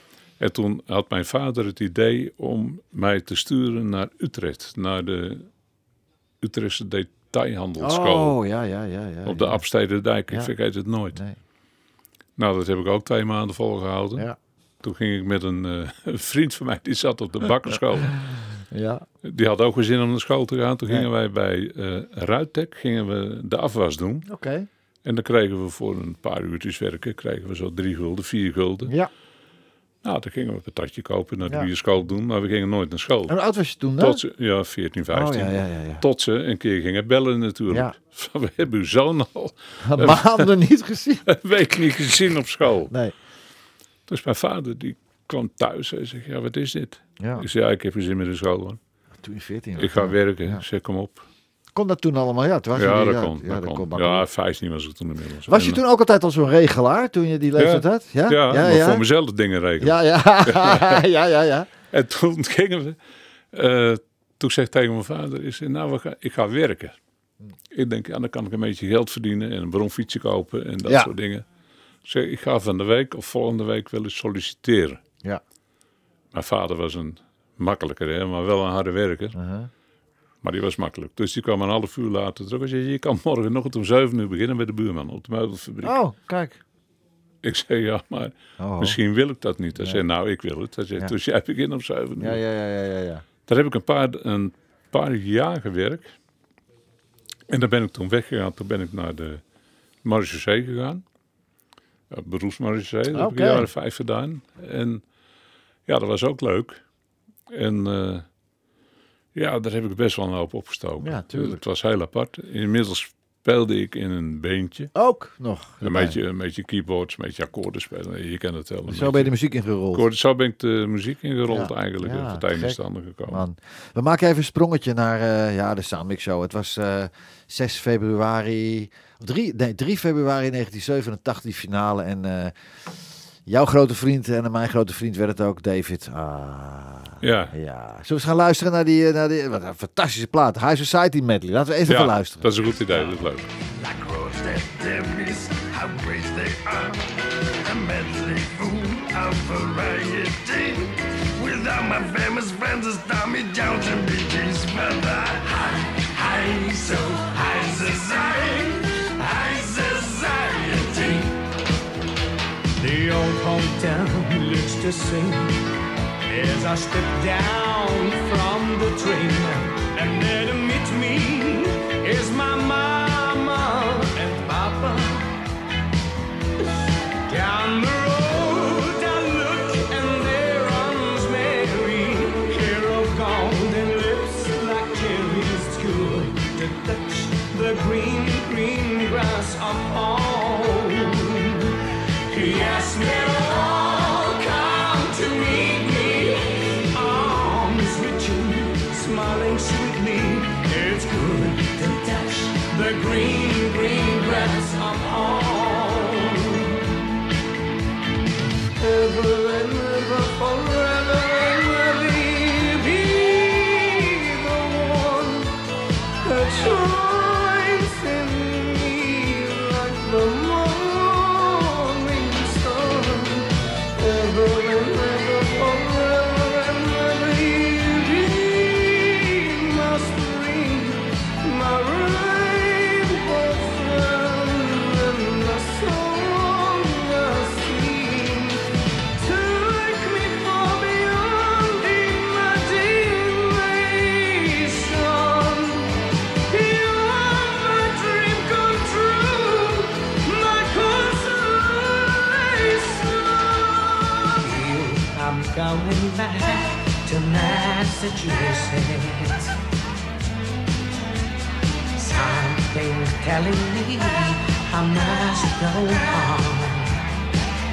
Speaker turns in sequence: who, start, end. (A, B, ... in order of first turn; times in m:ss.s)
0:00.4-0:05.5 A
0:06.4-0:08.4 A
0:07.8-0:09.6 B
0:09.2-0:11.2 A
0:12.4-0:14.3 A
0:14.8-0:18.1 A
0:17.7-0:19.0 B
0:19.2-0:24.2 A
0:24.3-0:24.7 B
0:25.0-0:28.9 A
0:30.0-0:33.3 A
0:33.3-0:34.2 B
0:34.0-0:40.5 A
0:35.1-0:36.0 B
0:39.8-0:41.2 B
0:41.2-0:42.9 A
0:44.1-0:48.8 A
0:47.2-0:47.4 B
0:49.2-0:50.6 B
0:49.8-0:51.2 A
0:51.8-0:54.2 B
0:52.7-0:55.8 A
0:55.5-0:59.0 B
0:57.6-1:01.0 A
0:59.8-1:01.7 B
1:01.9-1:03.0 A
1:03.5-1:07.0 A
1:07.7-1:11.4 A
1:10.8-1:11.1 B
1:12.0-1:15.0 A
1:16.3-1:19.4 A
1:19.4-1:19.7 B
1:20.4-1:26.0 A
1:25.8-1:26.6 B
1:27.4-1:32.4 A
1:28.6-1:29.0 B
1:32.2-1:33.2 B
1:33.4-1:36.1 A
1:37.5-1:39.4 A
1:40.0-1:41.0 A
1:42.1-1:45.0 A
1:43.1-1:43.7 B
1:45.8-1:46.8 A
1:47.5-1:48.2 A
1:49.3-1:54.9 A
1:51.0-1:51.6 B
1:54.9-1:56.2 B
1:55.8-1:59.3 A
1:58.9-2:00.0 B
1:59.9-2:03.4 A
2:01.5-2:12.5 B
2:13.5-2:22.5 B
2:17.2-2:17.5 A
2:21.8-2:23.5 A
2:23.7-2:41.3 C
2:42.8-2:45.6 D
2:46.3-2:55.3 D
2:57.3-3:26.9 D
3:28.8-3:35.5 D
3:36.2-3:58.6 D
3:59.1-4:06.0 D
4:06.5-4:19.5 D
4:22.0-4:27.0 D